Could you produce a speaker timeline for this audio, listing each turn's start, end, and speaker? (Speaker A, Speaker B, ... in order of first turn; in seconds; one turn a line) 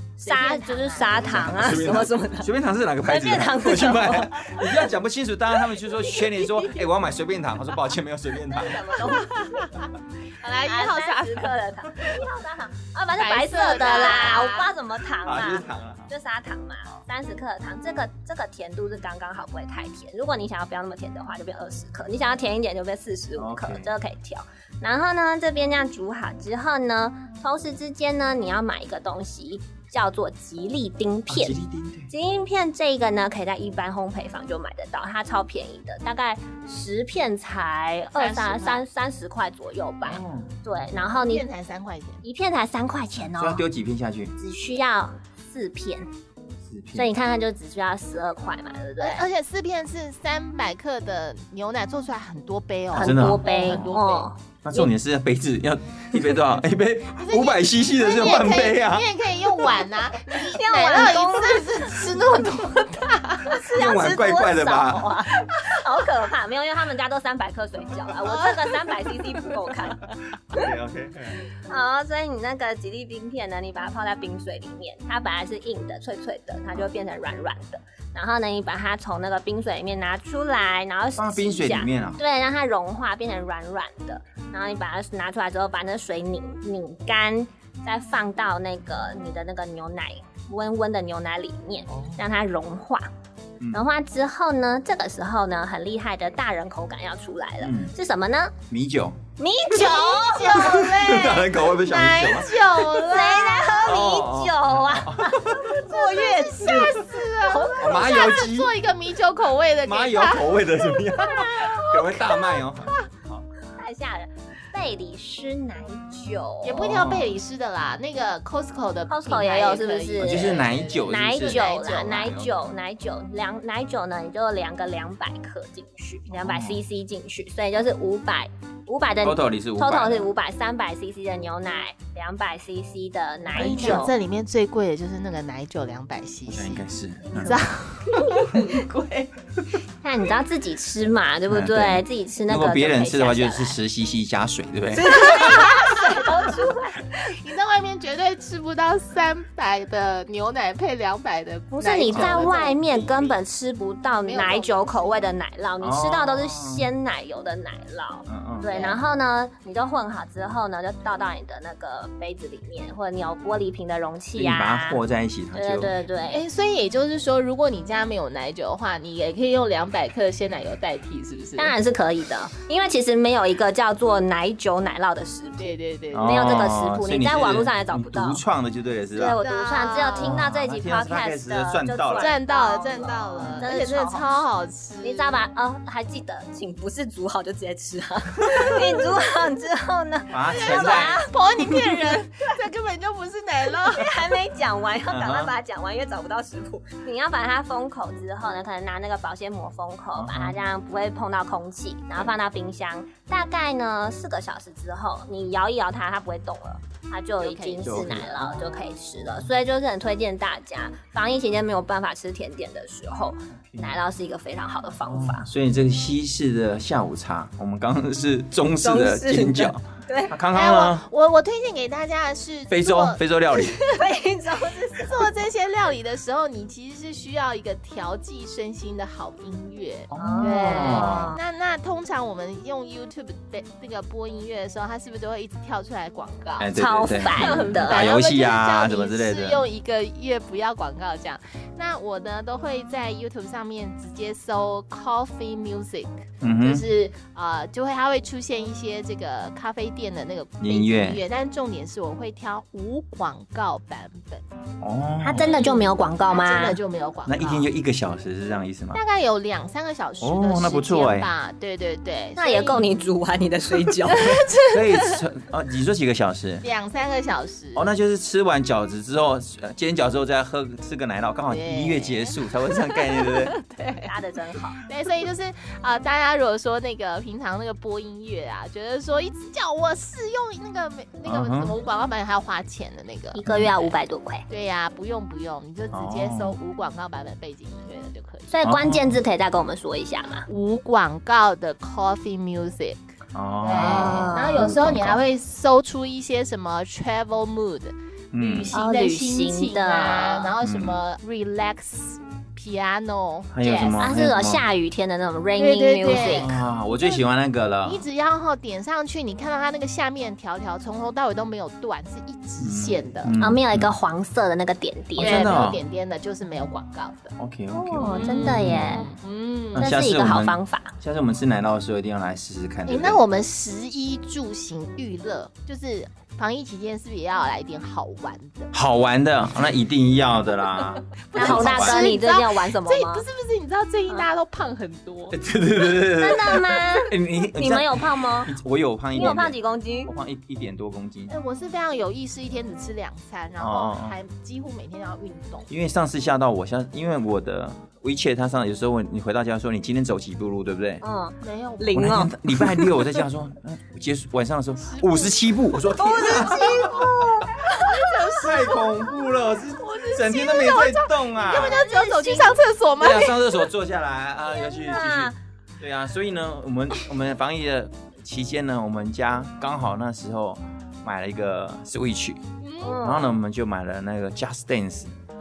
Speaker A: 0.2-2.5
Speaker B: 0.2-1.4
Speaker C: 1.1-9.1
Speaker A: 3.0-4.8
Speaker A: 8.5-9.7
Speaker B: 9.2-11.6
Speaker A: 10.6-31.6
Speaker B: 13.2-14.7
Speaker C: 15.2-16.1
Speaker C: 23.3-23.9
Speaker C: 31.3-32.1
Speaker A: 32.1-41.4
Speaker B: 38.1-38.8
Speaker C: 40.0-40.5
Speaker B: 41.1-42.2
Speaker A: 42.2-43.6
Speaker C: 43.2-44.3
Speaker A: 44.4-46.1
Speaker C: 46.6-47.1
Speaker A: 46.9-49.2
Speaker B: 49.0-54.3
Speaker A: 52.9-54.9
Speaker C: 52.9-54.0
Speaker C: 54.6-59.1
Speaker B: 57.1-63.6
Speaker A: 60.3-61.9
Speaker A: 63.4-70.7
Speaker C: 63.6-65.2
Speaker B: 68.2-69.1
Speaker C: 70.5-71.4
Speaker A: 71.5-93.1
Speaker C: 81.2-82.2
Speaker C: 91.9-92.2
Speaker C: 93.6-93.8
Speaker A: 93.7-98.5
Speaker C: 97.6-97.9
Speaker C: 98.7-99.2
Speaker A: 99.4-100.8
Speaker B: 99.7-103.8
Speaker C: 100.5-102.8
Speaker A: 102.9-108.0
Speaker C: 103.8-105.8
Speaker B: 105.8-110.6
Speaker C: 107.8-108.7
Speaker C: 109.8-113.5
Speaker B: 111.2-113.0
Speaker A: 113.7-116.9
Speaker B: 116.6-122.3
Speaker C: 116.8-117.4
Speaker A: 119.1-134.1
Speaker C: 120.2-122.5
Speaker C: 126.3-126.8
Speaker C: 129.2-130.3
Speaker B: 133.5-136.8
Speaker C: 133.5-134.1
Speaker C: 136.5-137.7
Speaker B: 137.3-139.3
Speaker A: 140.0-143.8
Speaker C: 141.5-145.7
Speaker A: 144.9-147.2
Speaker B: 145.1-146.3
Speaker B: 147.2-153.3
Speaker A: 151.7-165.0
Speaker C: 152.1-152.6
Speaker B: 154.2-155.3
Speaker C: 155.8-156.9
Speaker C: 158.3-159.0
Speaker C: 164.3-165.9
Speaker A: 165.5-166.4
Speaker B: 166.3-171.7
Speaker A: 171.6-178.4
Speaker B: 175.6-176.5
Speaker C: 176.1-179.4
Speaker A: 179.1-184.2
Speaker B: 179.4-180.4
Speaker C: 180.2-182.3
Speaker B: 182.2-185.4
Speaker C: 183.4-183.7
Speaker A: 185.0-191.9
Speaker C: 190.3-191.2
Speaker B: 190.5-194.3
Speaker A: 193.8-215.5
Speaker C: 195.1-195.5
Speaker C: 200.1-200.6
Speaker B: 207.4-208.5
Speaker C: 207.8-208.5
Speaker C: 215.0-221.1
Speaker A: 218.8-220.3
Speaker B: 220.5-223.2
Speaker C: 222.7-223.8
Speaker A: 223.6-225.3
Speaker B: 224.9-254.4
Speaker C: 230.1-231.3
Speaker A: 230.2-231.4
Speaker C: 236.6-239.6
Speaker A: 236.7-238.0
Speaker C: 246.4-246.8
Speaker C: 250.6-251.2
Speaker C: 254.8-255.5
Speaker A: 255.2-256.8
Speaker B: 255.3-257.7
Speaker C: 257.3-259.0
Speaker B: 258.9-262.9
Speaker C: 260.2-261.3
Speaker A: 262.4-264.4
Speaker B: 264.0-265.2
Speaker C: 264.7-266.6
Speaker B: 266.6-267.9
Speaker C: 267.7-273.5
Speaker B: 271.4-274.1
Speaker A: 274.0-274.8
Speaker B: 274.7-283.4
Speaker C: 281.2-281.7
Speaker A: 283.3-284.4
Speaker C: 283.4-283.7
Speaker B: 284.5-288.5
Speaker C: 285.9-286.6
Speaker A: 288.5-290.4
Speaker C: 288.6-289.2
Speaker B: 290.5-293.0
Speaker C: 293.3-295.2
Speaker B: 293.6-304.0
Speaker A: 293.7-294.7
Speaker C: 298.3-298.7
Speaker A: 298.7-300.5
Speaker C: 300.6-301.0
Speaker C: 303.5-304.6
Speaker A: 304.0-306.5
Speaker B: 305.6-307.2
Speaker C: 306.1-308.0
Speaker B: 307.8-313.3
Speaker C: 312.6-313.9
Speaker A: 313.4-315.6
Speaker C: 315.2-315.8
Speaker B: 315.2-317.3
Speaker C: 317.4-319.1
Speaker A: 317.7-319.1
Speaker B: 318.0-319.9
Speaker C: 319.7-323.2
Speaker A: 319.8-320.9
Speaker B: 322.9-328.7
Speaker C: 328.7-332.1
Speaker B: 331.2-335.4
Speaker A: 331.3-333.2
Speaker C: 335.3-341.3
Speaker A: 336.0-338.5
Speaker A: 339.1-340.1
Speaker B: 341.3-345.7
Speaker C: 343.6-344.2
Speaker C: 345.7-351.0
Speaker A: 351.0-353.2
Speaker B: 351.4-352.1
Speaker C: 351.9-357.5
Speaker B: 354.8-355.4
Speaker A: 355.9-358.2
Speaker B: 356.0-357.0
Speaker B: 357.6-363.5
Speaker C: 358.4-361.8
Speaker A: 361.5-362.6
Speaker C: 363.0-372.4
Speaker A: 364.5-365.4
Speaker B: 372.6-373.0
Speaker A: 372.8-373.3
Speaker C: 373.0-375.1